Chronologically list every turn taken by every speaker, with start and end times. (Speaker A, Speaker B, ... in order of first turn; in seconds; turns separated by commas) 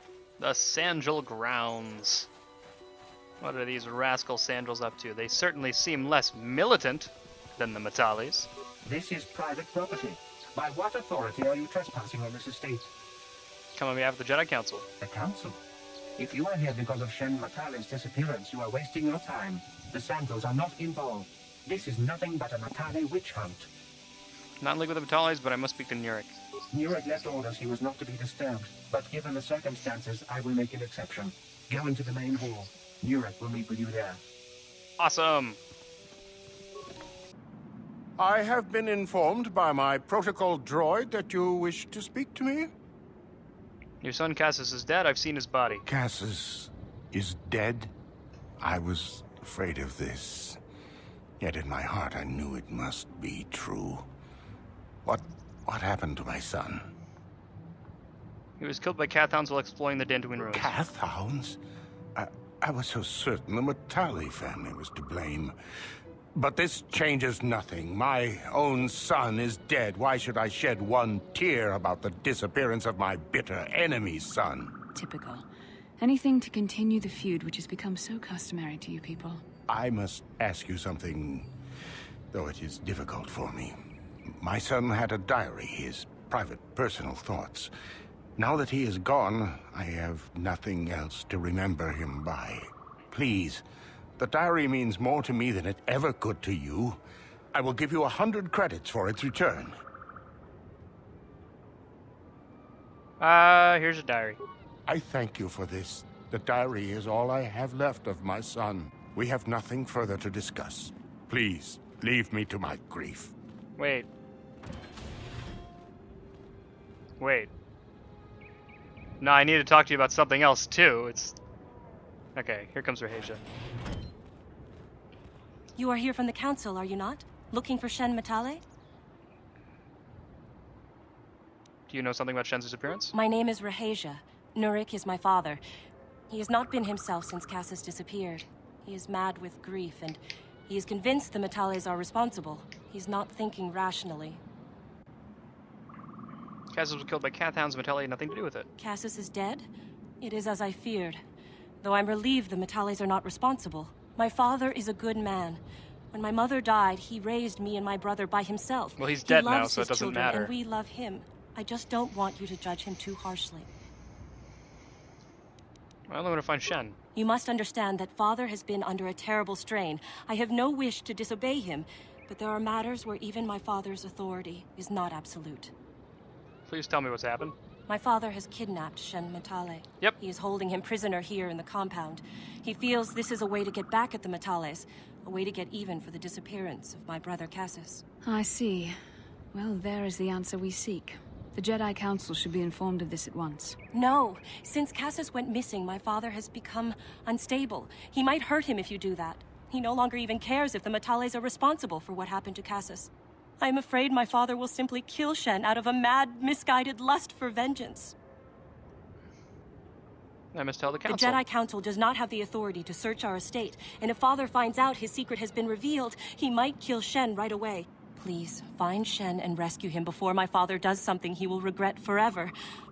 Speaker A: 0.4-2.3, Speaker A: 3.4-8.5, Speaker B: 8.8-12.9, Speaker A: 13.8-14.9, Speaker B: 15.0-15.6, Speaker B: 16.2-23.7, Speaker A: 24.6-26.3, Speaker B: 26.7-34.2, Speaker A: 35.0-35.6, Speaker C: 38.2-42.7, Speaker A: 44.0-45.9, Speaker C: 45.9-47.9, Speaker C: 48.6-50.6, Speaker C: 51.4-54.0, Speaker C: 55.0-56.9, Speaker A: 58.6-60.7, Speaker C: 60.5-61.6, Speaker C: 62.2-65.5, Speaker C: 66.3-74.7, Speaker D: 75.0-75.5, Speaker D: 76.0-79.4, Speaker C: 79.7-81.5, Speaker C: 82.3-83.8, Speaker C: 84.3-87.7, Speaker C: 88.4-93.6, Speaker C: 94.2-97.0, Speaker C: 97.5-99.7, Speaker A: 103.2-104.4, Speaker C: 104.9-113.3, Speaker A: 113.8-114.1, Speaker A: 117.2-117.5, Speaker A: 119.2-121.4, Speaker A: 122.4-123.5, Speaker E: 125.8-128.6, Speaker A: 131.9-133.1, Speaker E: 133.1-135.6, Speaker E: 136.3-144.4, Speaker A: 146.7-148.7, Speaker E: 148.8-149.7, Speaker E: 150.2-151.2, Speaker E: 151.8-155.6, Speaker E: 156.1-163.7, Speaker A: 159.0-160.5, Speaker A: 166.1-167.0, Speaker E: 167.2-175.7, Speaker A: 176.7-177.6, Speaker E: 177.9-188.0, Speaker D: 188.2-189.0, Speaker D: 189.5-193.8, Speaker E: 193.9-208.2, Speaker A: 210.5-211.4, Speaker E: 211.1-222.5